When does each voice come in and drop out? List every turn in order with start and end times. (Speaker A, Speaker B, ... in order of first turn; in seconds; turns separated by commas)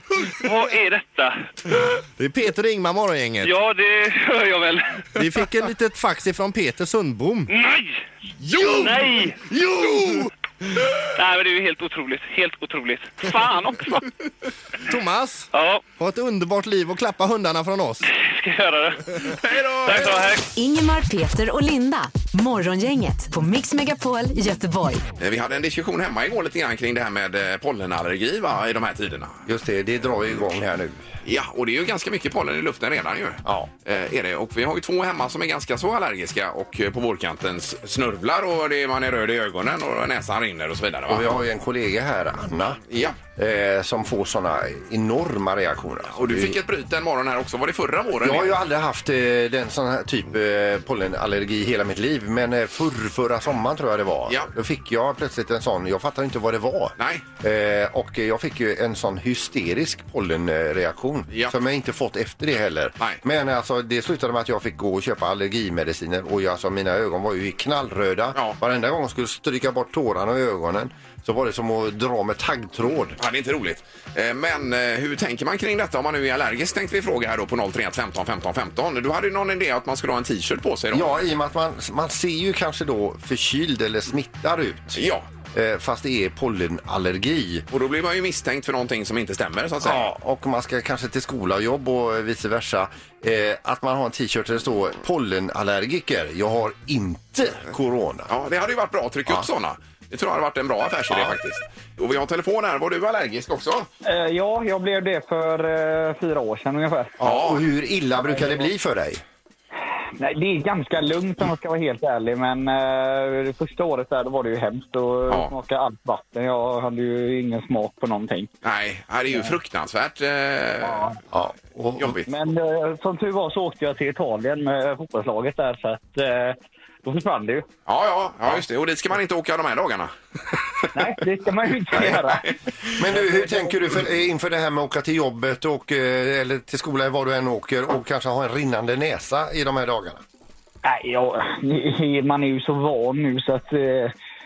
Speaker A: 0.3-1.5, Speaker B: 2.2-3.5, Speaker A: 3.4-5.4, Speaker B: 5.2-7.5, Speaker A: 7.5-8.0, Speaker B: 8.4-10.3, Speaker A: 8.6-9.5, Speaker A: 11.1-14.1, Speaker B: 14.9-18.1, Speaker A: 15.5-15.9, Speaker A: 18.0-20.5, Speaker C: 19.4-20.3, Speaker D: 20.6-25.1, Speaker C: 25.2-29.4, Speaker E: 29.5-31.0, Speaker C: 31.2-41.3, Speaker E: 33.5-33.7, Speaker E: 41.1-42.8, Speaker C: 42.9-43.2, Speaker E: 43.4-46.6, Speaker C: 46.1-48.6, Speaker E: 48.2-73.2, Speaker C: 57.0-57.2, Speaker C: 73.2-81.2, Speaker E: 80.9-85.0, Speaker C: 85.0-85.3, Speaker E: 85.5-87.7, Speaker C: 87.7-90.1, Speaker E: 89.8-98.3, Speaker C: 98.3-103.9, Speaker E: 101.1-101.4, Speaker F: 104.1-107.2, Speaker E: 107.2-109.2, Speaker C: 107.2-107.6, Speaker F: 110.2-118.5, Speaker C: 118.6-121.1, Speaker F: 119.3-119.5, Speaker F: 120.8-121.2, Speaker E: 121.3-122.2, Speaker C: 122.0-122.3, Speaker F: 122.3-127.7, Speaker C: 127.9-130.6, Speaker F: 130.9-132.5, Speaker E: 133.0-140.2, Speaker F: 133.0-133.7, Speaker F: 140.8-144.1